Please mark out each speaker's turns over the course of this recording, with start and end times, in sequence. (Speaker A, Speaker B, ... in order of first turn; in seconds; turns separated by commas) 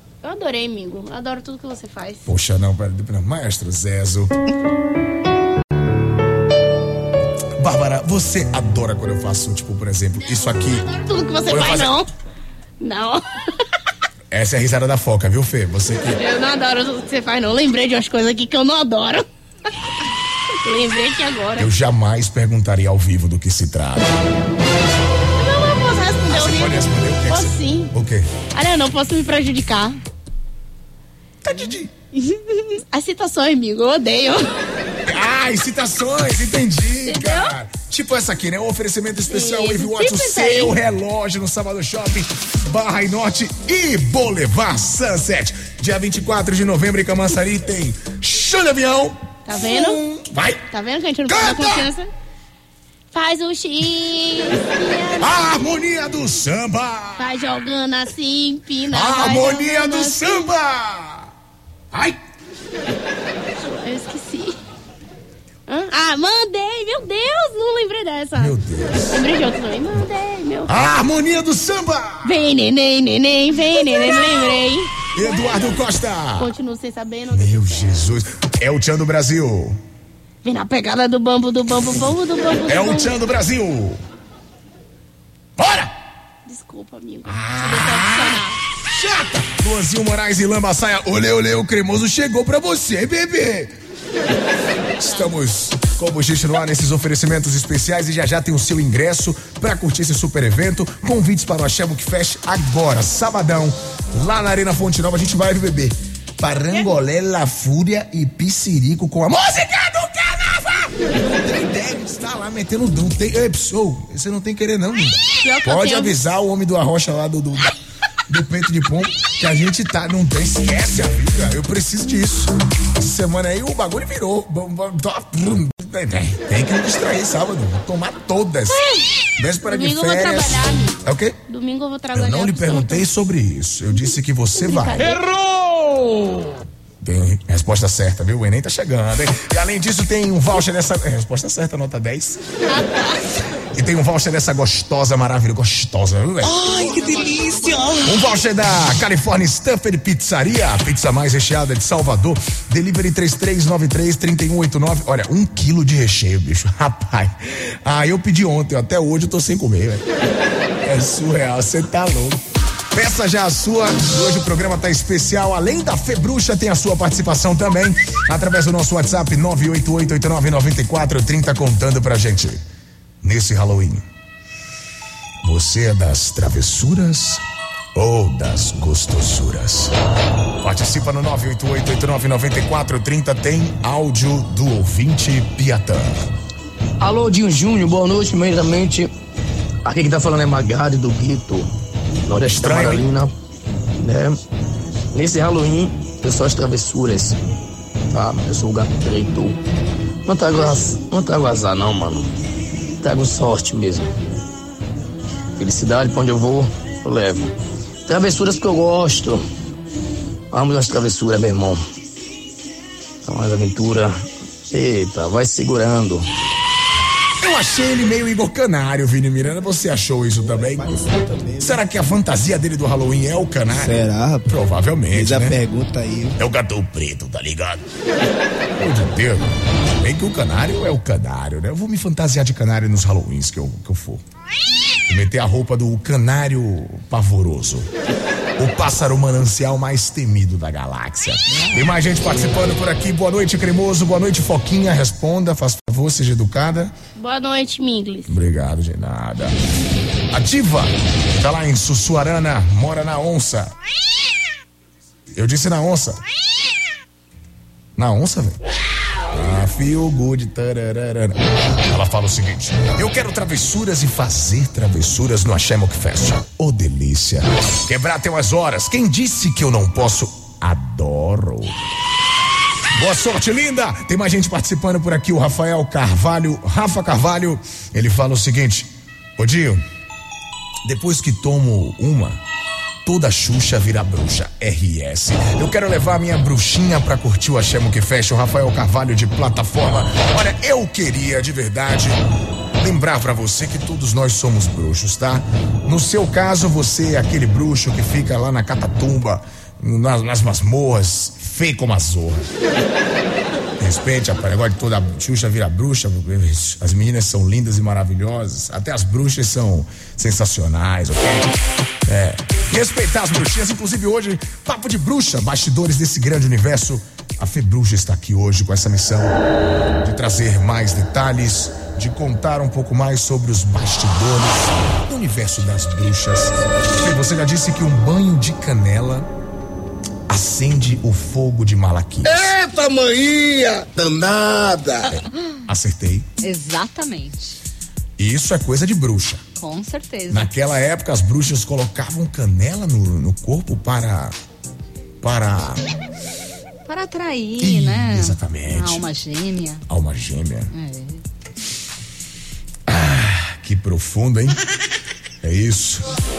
Speaker A: 0.2-2.3, Speaker B: 2.3-4.3, Speaker B: 7.6-10.9, Speaker A: 10.8-12.1, Speaker B: 11.5-11.9, Speaker A: 12.8-13.2, Speaker B: 14.3-16.2, Speaker A: 16.2-19.3, Speaker A: 20.5-21.7, Speaker B: 21.6-24.1, Speaker A: 25.4-27.9, Speaker B: 26.2-28.3, Speaker A: 28.5-30.0, Speaker B: 31.4-31.9, Speaker A: 32.1-34.5, Speaker B: 35.1-50.6, Speaker A: 37.1-37.5, Speaker A: 39.3-40.8, Speaker A: 49.5-50.0, Speaker A: 50.7-52.1, Speaker B: 51.3-51.9, Speaker A: 53.1-55.3, Speaker B: 55.2-57.3, Speaker A: 57.2-60.5, Speaker B: 58.9-61.3, Speaker A: 63.6-64.6, Speaker A: 65.7-68.5, Speaker B: 68.4-69.3, Speaker A: 69.1-70.7, Speaker B: 70.7-72.3, Speaker A: 72.2-77.9, Speaker B: 73.7-76.5, Speaker B: 77.3-79.8, Speaker A: 80.4-83.1, Speaker B: 82.7-84.0, Speaker B: 85.6-85.9, Speaker A: 86.5-88.6, Speaker B: 87.3-93.7, Speaker B: 95.0-117.8, Speaker A: 115.4-116.2, Speaker B: 118.3-128.8, Speaker B: 129.4-131.4, Speaker A: 129.6-133.1, Speaker B: 132.1-135.2, Speaker A: 134.0-135.2, Speaker B: 137.0-142.4, Speaker A: 142.7-143.2, Speaker B: 143.7-160.0, Speaker A: 146.6-147.5, Speaker B: 160.8-162.4, Speaker B: 162.9-172.6, Speaker B: 173.2-174.0, Speaker B: 175.4-177.4, Speaker B: 177.9-179.9, Speaker B: 180.6-186.1, Speaker C: 187.0-189.1, Speaker C: 189.8-191.7, Speaker C: 192.3-193.3, Speaker B: 192.4-193.1, Speaker C: 194.0-194.4, Speaker C: 195.1-197.4, Speaker C: 198.1-199.6, Speaker C: 200.3-202.3, Speaker C: 203.0-204.1, Speaker C: 205.6-207.5, Speaker C: 208.1-209.4, Speaker C: 210.5-211.8, Speaker C: 213.3-214.2, Speaker C: 214.7-216.3, Speaker B: 217.4-220.9, Speaker D: 220.4-221.8, Speaker B: 221.6-225.6, Speaker D: 223.7-224.6, Speaker D: 225.1-226.4, Speaker B: 226.4-227.9, Speaker B: 228.8-229.5, Speaker B: 230.0-234.2, Speaker B: 235.1-237.9, Speaker B: 238.6-246.9, Speaker D: 241.5-241.9, Speaker A: 247.2-248.4, Speaker B: 248.3-249.6, Speaker B: 250.3-253.7, Speaker B: 255.3-256.2, Speaker B: 258.0-258.6, Speaker B: 259.3-271.8, Speaker B: 272.9-279.8, Speaker B: 280.8-282.4, Speaker B: 283.1-292.2, Speaker B: 292.8-302.5, Speaker B: 303.8-311.5, Speaker B: 312.1-319.4, Speaker B: 320.0-329.3, Speaker B: 330.3-332.6, Speaker C: 332.4-335.0, Speaker B: 335.1-336.3, Speaker E: 336.4-337.6, Speaker B: 338.2-339.4, Speaker E: 339.6-340.5, Speaker B: 340.3-344.4, Speaker B: 345.2-345.8, Speaker E: 346.9-349.8, Speaker B: 347.6-349.1, Speaker B: 349.9-350.7, Speaker E: 350.7-351.2, Speaker B: 352.9-354.6, Speaker B: 355.4-356.1